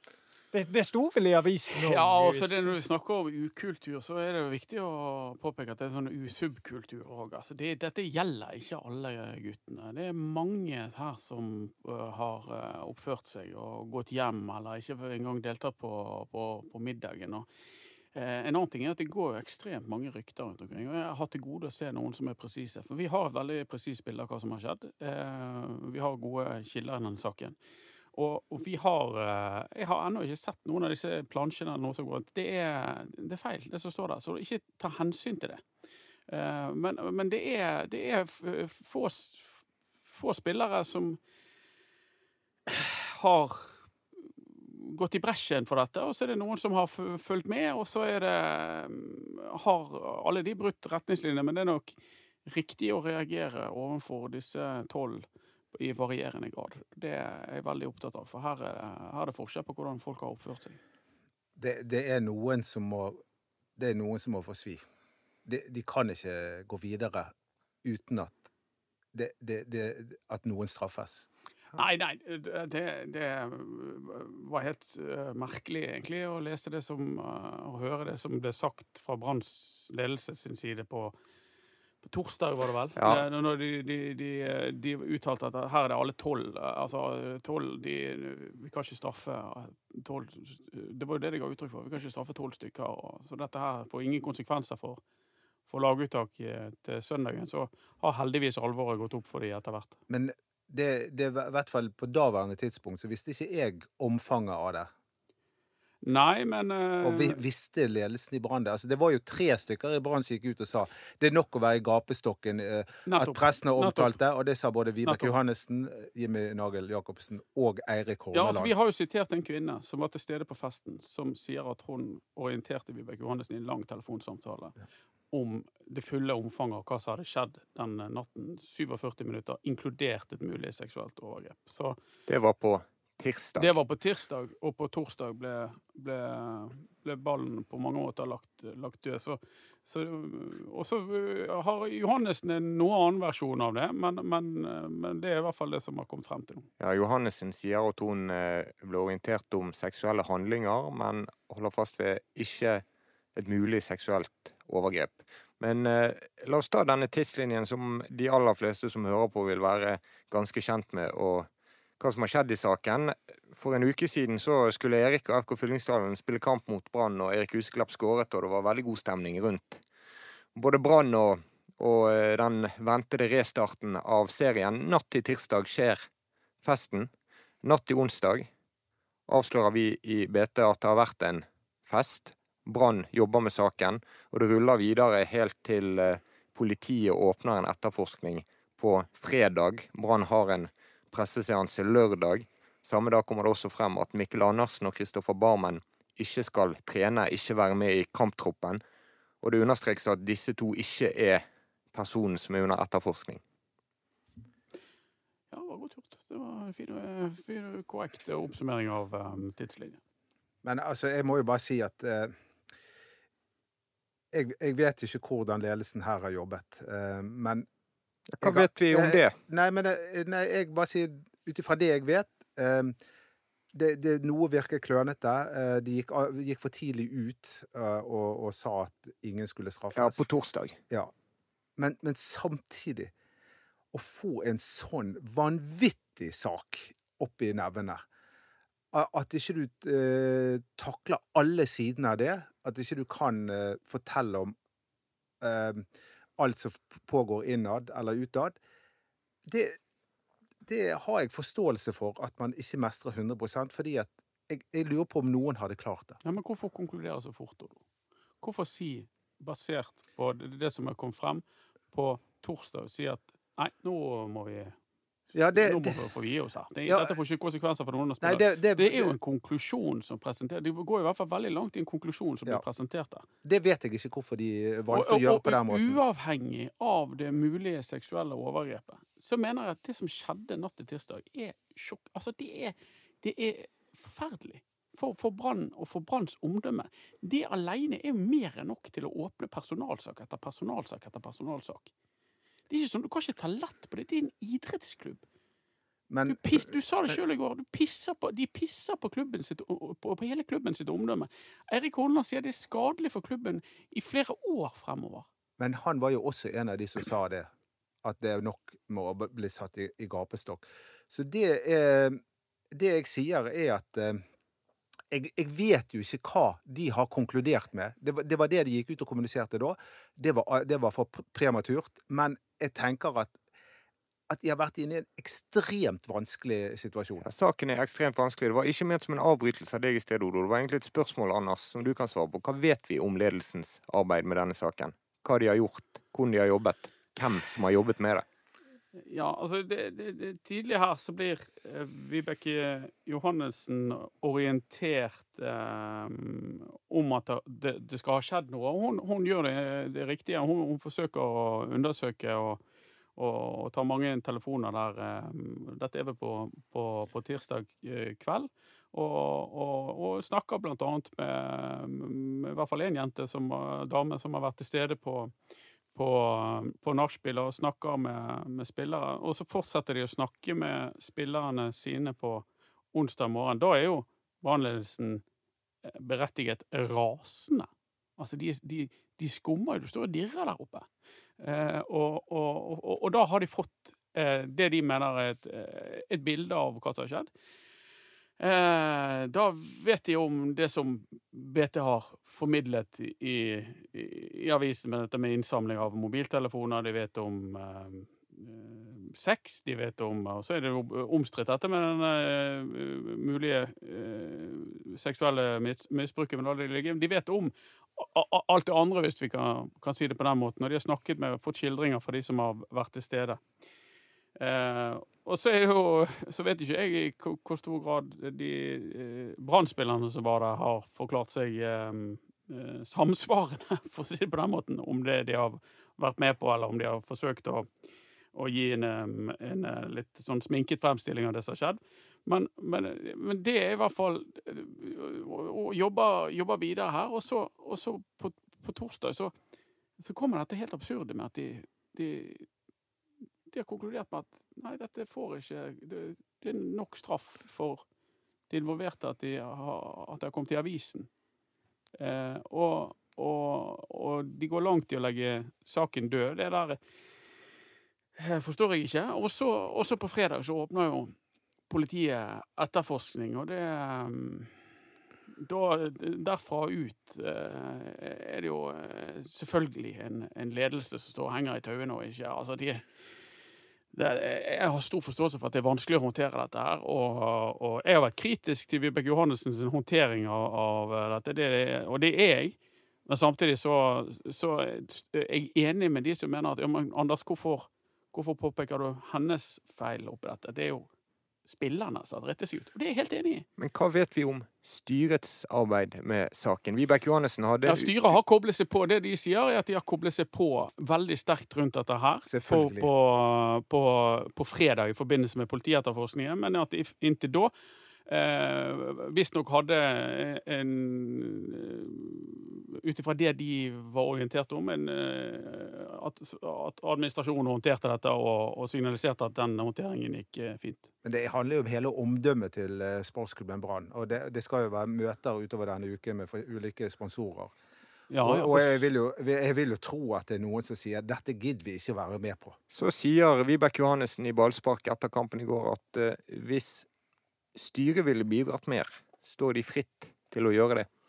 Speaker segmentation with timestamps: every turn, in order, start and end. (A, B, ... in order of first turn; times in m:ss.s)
0:00.5-0:02.7 A
0:01.7-0:17.5 B
0:18.1-0:27.6 B
0:28.1-0:35.6 B
0:36.3-0:39.5 B
0:40.1-0:41.2 B
0:42.7-0:43.8 B
0:44.6-0:51.9 B
0:52.4-1:00.8 B
1:01.6-1:03.2 C
1:03.8-1:04.8 C
1:05.4-1:07.3 C
1:07.8-1:08.4 C
1:09.1-1:11.3 C
1:11.8-1:21.1 B
1:22.0-1:35.0 B
1:23.0-1:23.2 D
1:35.7-1:39.9 B
1:40.1-1:44.9 C
1:46.0-1:47.4 B
1:47.0-1:58.7 C
1:53.1-1:54.2 B
1:55.0-1:55.3 B
1:58.3-2:04.7 B
2:05.3-2:12.0 B
2:12.3-2:13.7 D
2:13.6-2:26.7 B
2:26.8-2:32.8 D
2:33.3-2:41.5 D
2:42.0-2:49.8 D
2:50.5-2:56.0 D
2:56.6-2:57.1 D
2:57.6-2:58.5 D
2:59.3-3:18.8 D
3:19.4-3:23.4 D
3:25.5-3:30.0 B
3:30.6-3:32.3 C
3:34.3-3:37.7 C
3:38.3-3:39.3 D
3:38.4-3:42.9 C
3:43.7-3:50.2 C
3:49.9-3:50.8 D
3:51.8-3:53.1 C
3:53.9-3:58.0 C
3:58.9-4:04.6 C
4:05.4-4:05.9 C
4:06.4-4:08.6 C
4:09.4-4:09.8 C
4:10.6-4:16.2 C
4:16.2-4:17.8 B
4:18.4-4:24.7 B
4:25.3-4:26.0 C
4:25.5-4:33.2 B
4:26.9-4:27.2 C
4:28.2-4:29.2 C
4:33.4-4:36.0 C
4:34.9-4:51.9 B
4:52.7-4:55.2 B
4:56.1-4:57.2 C
4:56.2-5:05.3 B
5:05.6-5:07.5 C
5:08.0-5:12.2 C
5:12.7-5:14.2 C
5:15.1-5:23.4 C
5:24.3-5:27.2 C
5:27.2-5:38.2 D
5:39.0-5:52.6 B
5:53.2-6:05.3 B
6:05.9-6:15.2 B
6:15.8-6:20.8 B
6:21.4-6:27.3 B
6:28.4-6:53.4 B
6:54.4-7:07.6 B
7:08.3-7:19.3 B
7:20.0-7:22.5 B
7:23.5-7:27.8 B
7:28.5-7:31.1 B
7:32.0-7:36.8 B
7:38.2-7:41.1 B
7:41.7-7:44.6 B
7:45.4-7:52.8 B
7:53.9-8:10.9 B
8:11.4-8:13.4 B
8:13.6-8:18.1 D
8:17.6-8:27.5 B
8:22.3-8:22.9 C
8:28.1-8:40.9 B
8:41.0-8:47.5 C
8:48.1-8:48.9 B
8:48.2-8:52.6 C
8:52.7-8:56.9 D
8:57.6-9:00.9 D